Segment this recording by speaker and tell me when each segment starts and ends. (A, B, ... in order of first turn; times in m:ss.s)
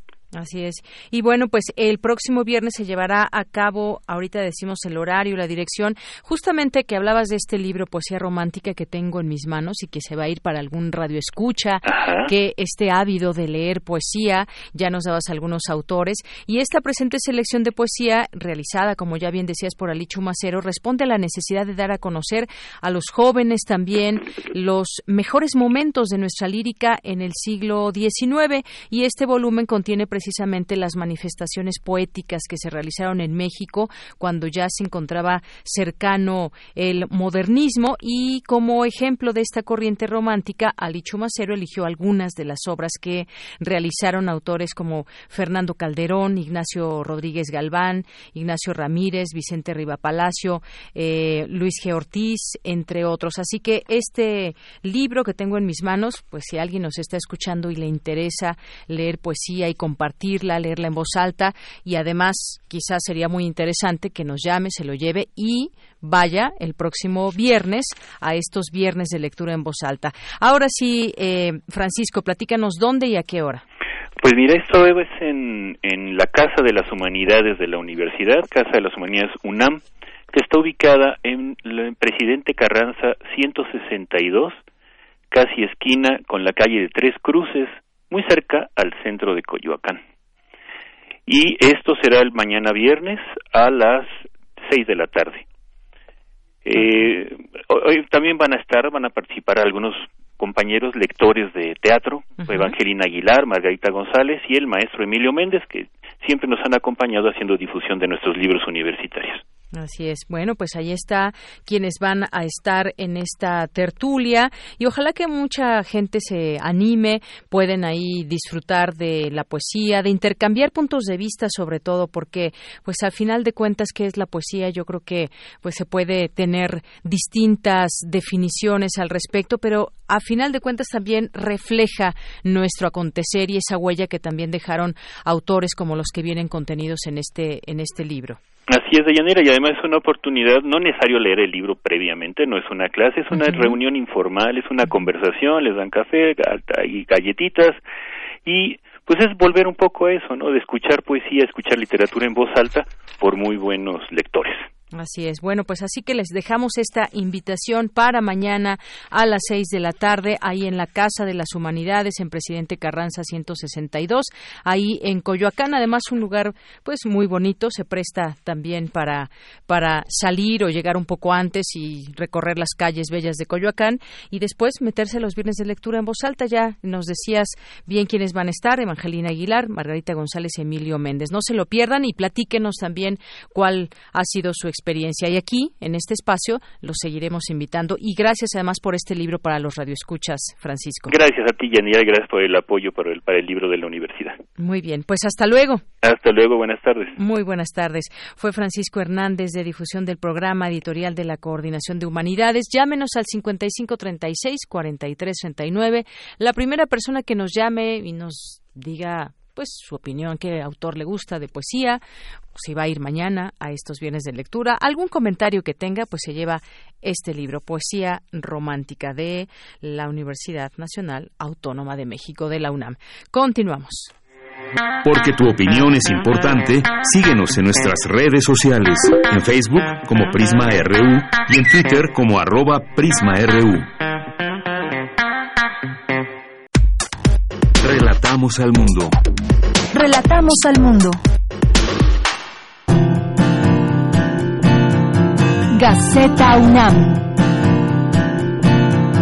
0:00.3-1:13.6 A
0:11.9-0:12.3 B
1:14.2-1:24.6 B
1:25.3-1:30.0 B
1:31.3-1:35.5 B
1:36.6-1:49.4 B
1:42.4-1:42.8 A
1:49.7-2:18.4 A
2:18.7-2:27.8 B
2:23.3-2:23.8 A
2:28.4-2:34.7 B
2:34.9-3:11.1 A
3:11.1-3:14.4 B
3:14.6-3:15.8 A
3:16.0-3:17.2 B
3:17.2-3:32.0 A
3:32.5-3:44.1 A
3:45.0-3:53.9 C
3:57.8-3:59.2 C
3:59.9-4:01.2 D
4:05.7-4:07.2 D